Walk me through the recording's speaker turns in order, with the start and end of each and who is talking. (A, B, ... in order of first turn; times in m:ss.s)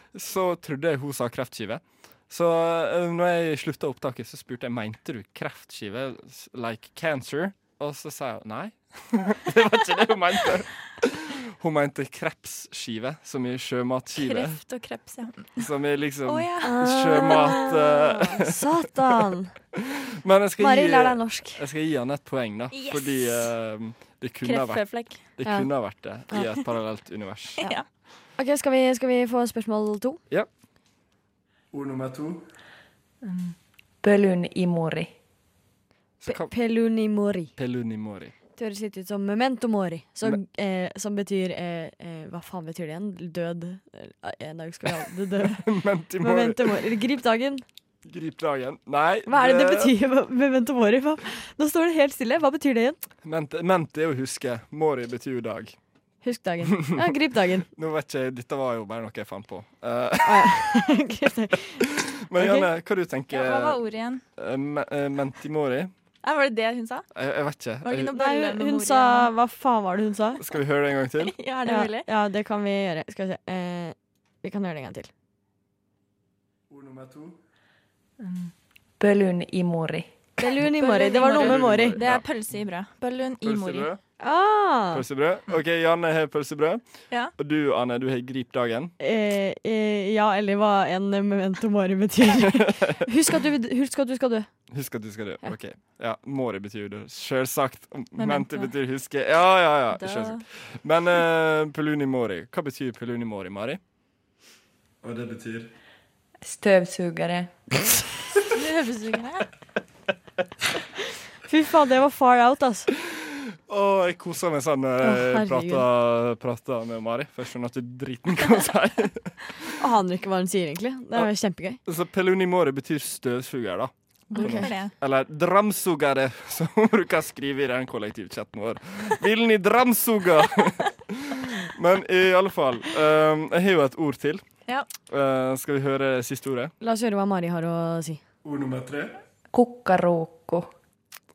0:00.1-0:14.6 A
0:14.2-0:15.6 B
0:15.6-0:18.7 A
0:16.2-0:17.6 B
0:16.6-0:19.5 C
0:19.8-0:27.6 A
0:20.6-0:21.6 C
0:22.7-0:23.5 B
0:24.4-0:25.3 B
0:25.4-0:25.7 C
0:26.3-0:26.6 C
0:27.6-0:27.9 B
0:28.4-0:30.2 C
0:31.7-0:32.4 A
0:33.2-0:35.1 D
0:36.2-0:36.5 A
0:36.3-0:37.5 C
0:37.6-0:38.3 A
0:38.6-0:45.6 C
0:45.4-0:46.7 A
0:46.2-0:47.6 C
0:48.1-0:49.9 A
0:49.3-0:53.0 C
0:53.2-0:55.8 A
0:56.2-0:57.7 C
0:56.8-0:57.0 A
0:57.8-1:00.8 A
1:00.2-1:02.7 C
1:01.8-1:03.8 A
1:03.3-1:04.2 B
1:04.4-1:05.9 A
1:06.2-1:07.0 B
1:07.2-1:08.2 A
1:07.8-1:09.3 B
1:08.1-1:10.4 C
1:10.4-1:11.4 A
1:11.2-1:12.1 B
1:11.6-1:15.1 C
1:16.7-1:17.4 A
1:18.2-1:20.1 D
1:20.4-1:22.0 C
1:20.6-1:23.9 B
1:21.3-1:22.2 A
1:23.4-1:24.0 A
1:24.2-1:25.0 C
1:24.9-1:26.8 A
1:27.4-1:28.9 A
1:29.0-1:34.5 C
1:32.4-1:33.0 A
1:34.7-1:43.8 A
1:38.2-1:38.7 B
1:39.9-1:40.4 B
1:45.0-1:45.7 A
1:46.4-1:47.5 D
1:48.5-1:49.5 B
1:51.5-1:52.9 C
1:53.1-1:59.6 A
1:55.0-1:55.8 C
1:59.8-2:01.8 C
2:01.9-2:14.4 A
2:04.3-2:04.9 B
2:04.4-2:04.7 C
2:15.1-2:16.7 A
2:16.8-2:18.2 C
2:18.4-2:19.1 A
2:19.5-2:20.7 D